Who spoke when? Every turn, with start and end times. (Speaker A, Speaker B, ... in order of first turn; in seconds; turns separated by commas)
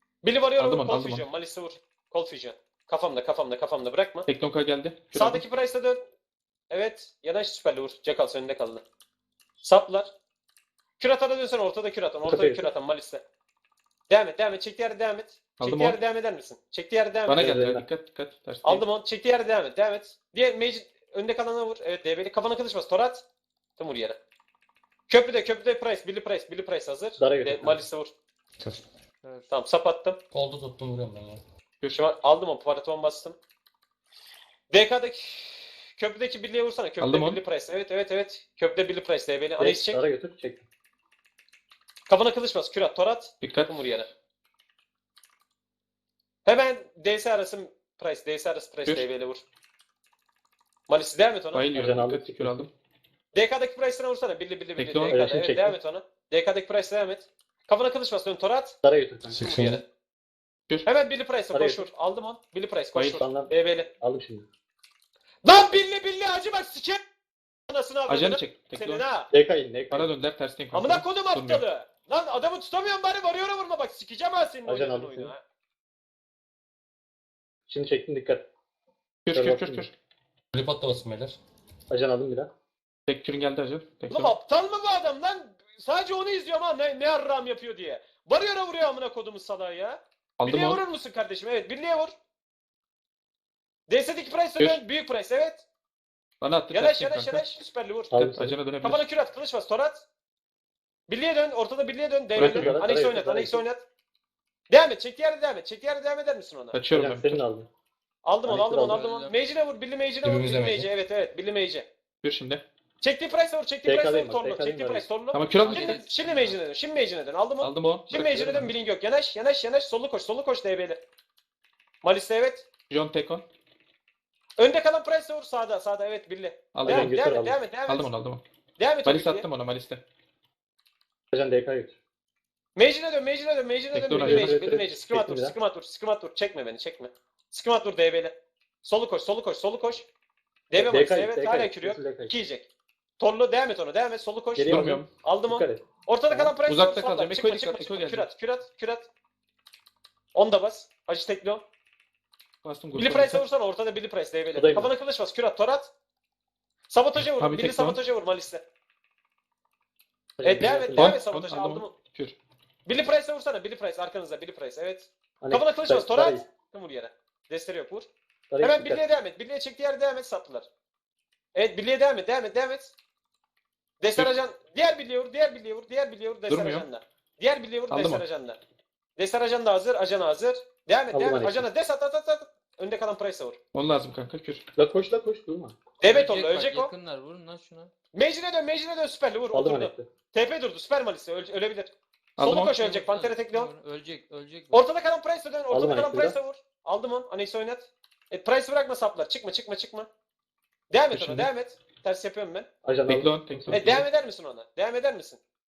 Speaker A: 0.2-4.3, Speaker B: 0.6-1.3, Speaker B: 4.3-5.4, Speaker A: 5.1-6.0, Speaker A: 6.7-8.8, Speaker A: 9.6-10.1, Speaker A: 11.0-13.2, Speaker C: 12.2-12.7, Speaker A: 14.1-17.6, Speaker B: 15.6-16.0, Speaker B: 17.3-18.9, Speaker C: 17.4-17.9, Speaker A: 18.6-23.2, Speaker A: 23.8-24.2, Speaker A: 25.1-28.1, Speaker C: 27.2-27.8, Speaker D: 29.2-29.5, Speaker A: 29.5-30.2, Speaker E: 30.3-31.4, Speaker A: 31.9-33.4, Speaker A: 34.7-40.0, Speaker B: 37.0-37.4, Speaker C: 39.6-40.6, Speaker A: 42.1-44.1, Speaker B: 43.4-43.8, Speaker A: 46.5-49.4, Speaker A: 50.9-51.6, Speaker B: 51.5-52.7, Speaker C: 51.7-52.7, Speaker A: 53.3-58.8, Speaker B: 54.8-55.2, Speaker C: 55.1-55.8, Speaker C: 58.8-59.5, Speaker A: 59.3-59.8, Speaker E: 59.4-59.8, Speaker A: 60.9-63.9, Speaker C: 61.5-61.9, Speaker C: 63.1-64.5, Speaker A: 65.4-67.0, Speaker A: 67.7-69.3, Speaker B: 68.1-69.0, Speaker C: 69.3-70.1, Speaker B: 69.9-71.6, Speaker A: 70.7-75.4, Speaker C: 74.7-75.3, Speaker C: 77.7-78.5, Speaker B: 79.3-79.9, Speaker C: 79.3-79.9, Speaker E: 80.5-81.4, Speaker C: 81.9-82.5, Speaker B: 83.1-84.3, Speaker A: 84.1-92.1, Speaker B: 90.4-90.8, Speaker A: 93.9-95.6, Speaker B: 96.4-97.4, Speaker A: 96.7-98.1, Speaker C: 98.1-98.6, Speaker B: 98.1-99.0, Speaker A: 98.8-100.0, Speaker A: 101.1-103.8, Speaker B: 102.3-102.8, Speaker C: 102.4-103.6, Speaker A: 104.7-106.8, Speaker B: 106.7-107.4, Speaker C: 106.9-107.7, Speaker A: 108.2-111.9, Speaker C: 108.5-109.0, Speaker D: 108.7-109.4, Speaker E: 110.2-110.9, Speaker B: 112.2-112.6, Speaker A: 113.0-121.0, Speaker C: 113.8-115.1, Speaker B: 115.3-116.0, Speaker D: 115.6-116.6, Speaker B: 117.6-118.7, Speaker A: 122.0-122.7, Speaker B: 122.9-123.4, Speaker A: 124.6-128.1, Speaker B: 126.7-127.2, Speaker C: 126.8-127.6, Speaker B: 127.9-128.4, Speaker A: 128.8-129.5, Speaker B: 129.1-130.0, Speaker C: 131.3-132.0, Speaker A: 132.8-140.1, Speaker B: 133.9-134.6, Speaker C: 134.2-135.6, Speaker A: 140.7-142.7, Speaker C: 140.7-142.3, Speaker A: 143.2-149.1, Speaker C: 144.6-146.6, Speaker B: 144.7-145.1, Speaker B: 146.7-148.3, Speaker A: 150.3-151.6, Speaker B: 152.6-153.4, Speaker A: 152.9-155.9, Speaker C: 154.5-154.9, Speaker A: 156.9-158.6, Speaker B: 157.2-158.0, Speaker C: 160.4-161.2, Speaker A: 160.4-161.9, Speaker B: 161.0-162.3, Speaker A: 162.9-168.1, Speaker C: 165.4-166.4, Speaker C: 168.5-169.0, Speaker A: 168.6-170.7, Speaker A: 171.6-172.9, Speaker A: 174.0-178.6, Speaker B: 176.5-176.9, Speaker B: 177.9-178.2, Speaker A: 179.2-183.6, Speaker C: 181.1-181.7, Speaker B: 183.7-184.7, Speaker C: 184.8-185.8, Speaker A: 186.0-186.9, Speaker D: 186.0-187.9, Speaker A: 188.1-193.7, Speaker C: 189.5-190.1, Speaker B: 192.4-192.8, Speaker D: 192.8-194.8, Speaker A: 194.7-200.1, Speaker C: 195.7-196.4, Speaker A: 200.9-202.7, Speaker B: 201.1-201.5, Speaker C: 202.8-204.1, Speaker B: 203.1-204.0, Speaker A: 203.7-205.4